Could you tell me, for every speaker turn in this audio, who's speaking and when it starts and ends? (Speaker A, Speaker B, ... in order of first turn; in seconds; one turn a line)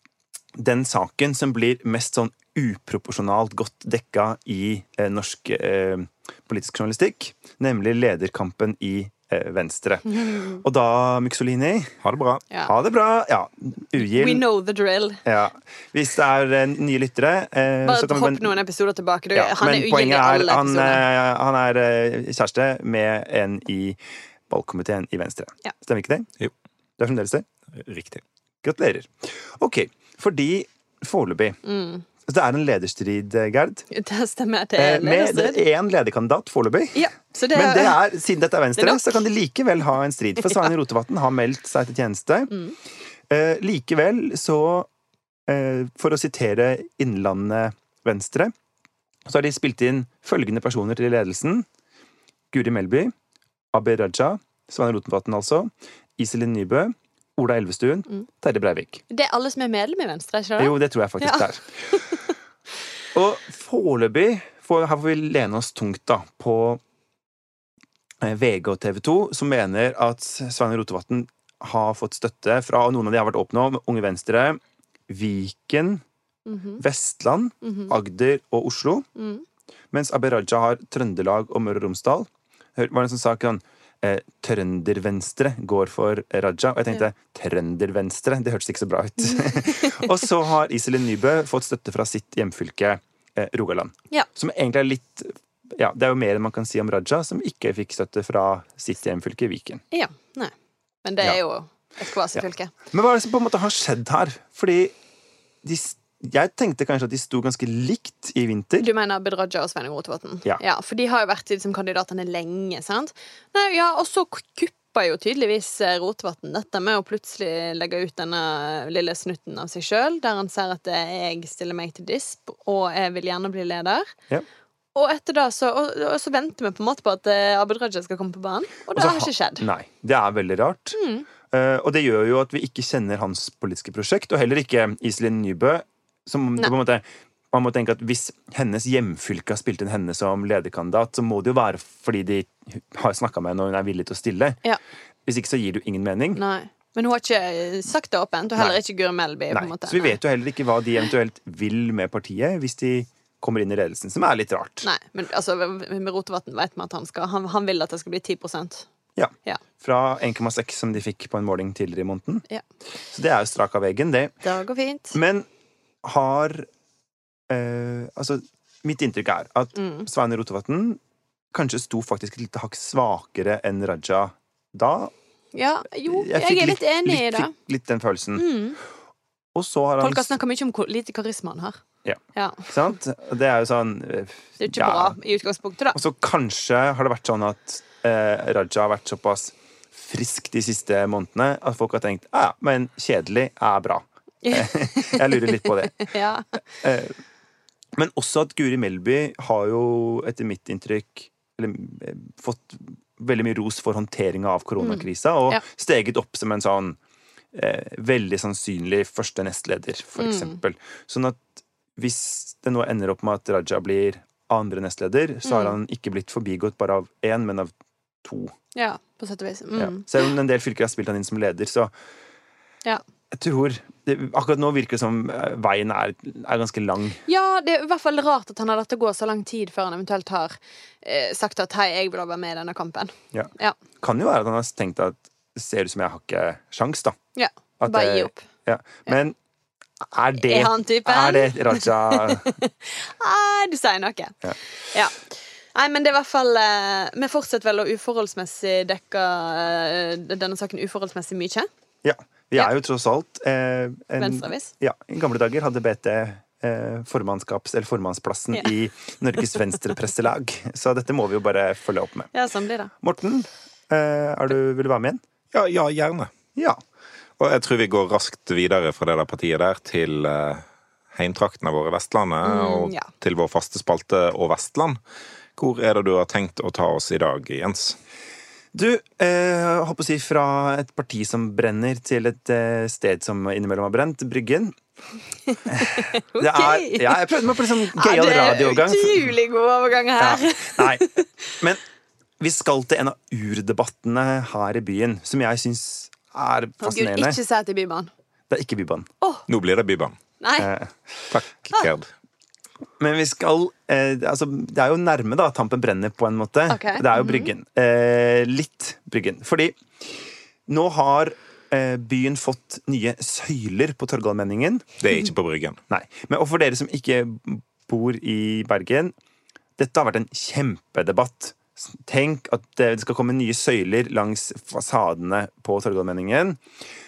Speaker A: 0.6-11.9
Speaker B: 10.2-10.6
Speaker C: 12.0-12.4
Speaker A: 12.7-14.5
Speaker B: 14.0-15.2
Speaker A: 15.2-18.6
Speaker B: 17.9-21.1
Speaker A: 19.3-26.3
Speaker A: 27.0-27.5
Speaker C: 27.8-28.2
Speaker A: 28.6-31.6
Speaker B: 31.6-32.0
Speaker A: 32.2-33.9
Speaker B: 33.9-35.6
Speaker A: 34.8-42.5
Speaker B: 36.9-38.0
Speaker B: 38.8-39.1
Speaker B: 40.4-40.7
Speaker B: 42.5-42.8
Speaker A: 43.3-44.9
Speaker A: 45.5-48.5
Speaker A: 49.3-51.7
Speaker A: 52.5-53.1
Speaker A: 53.7-59.0
Speaker B: 59.1-62.2
Speaker A: 60.6-62.0
Speaker A: 63.1-66.8
Speaker A: 68.2-76.0
Speaker B: 76.5-76.8
Speaker A: 76.8-79.1
Speaker B: 77.6-78.0
Speaker B: 79.2-79.4
Speaker A: 79.9-99.8
Speaker B: 89.3-90.1
Speaker B: 99.9-100.5
Speaker B: 101.0-102.7
Speaker A: 102.3-105.0
Speaker A: 105.6-108.9
Speaker B: 108.8-124.1
Speaker B: 125.0-129.6
Speaker A: 128.9-131.0
Speaker B: 130.9-131.3
Speaker A: 131.5-144.6
Speaker A: 145.3-146.4
Speaker B: 146.3-150.2
Speaker A: 149.5-154.9
Speaker B: 154.8-158.9
Speaker A: 159.2-162.4
Speaker A: 163.1-164.3
Speaker B: 164.4-165.2
Speaker A: 165.1-165.5
Speaker A: 166.0-166.7
Speaker A: 167.5-171.0
Speaker B: 169.8-170.1
Speaker A: 171.5-175.1
Speaker B: 175.5-177.5
Speaker A: 176.1-178.5
Speaker B: 178.4-178.8
Speaker A: 179.5-180.3
Speaker B: 180.0-181.8
Speaker A: 182.1-185.2
Speaker B: 182.3-182.7
Speaker B: 184.6-186.0
Speaker A: 185.9-196.1
Speaker B: 194.4-196.6
Speaker A: 196.8-197.2
Speaker A: 197.9-207.0
Speaker B: 204.8-205.6
Speaker A: 207.5-218.5
Speaker B: 210.2-210.6
Speaker B: 215.4-215.8
Speaker B: 218.8-220.2
Speaker A: 219.8-221.9
Speaker A: 223.3-227.2
Speaker B: 227.3-233.8
Speaker A: 233.3-237.2
Speaker B: 237.4-238.4
Speaker A: 237.8-239.4
Speaker A: 240.0-242.5
Speaker B: 240.4-244.3
Speaker B: 244.9-251.7
Speaker A: 252.0-262.3
Speaker B: 254.2-254.7
Speaker B: 262.3-262.9
Speaker A: 263.0-265.2
Speaker C: 265.5-266.3
Speaker A: 266.6-266.8
Speaker C: 267.4-275.0
Speaker B: 272.4-273.1
Speaker C: 275.6-278.0
Speaker A: 278.7-284.8
Speaker B: 285.5-287.2
Speaker A: 285.7-289.2
Speaker B: 287.9-291.3
Speaker A: 290.2-291.1
Speaker A: 292.4-297.4
Speaker B: 296.8-298.1
Speaker A: 298.5-299.1
Speaker C: 299.5-300.2
Speaker B: 300.4-300.7
Speaker A: 300.6-301.0
Speaker C: 301.3-302.1
Speaker A: 303.0-314.9
Speaker B: 306.7-307.5
Speaker C: 315.0-315.8
Speaker A: 315.9-319.1
Speaker A: 319.8-326.6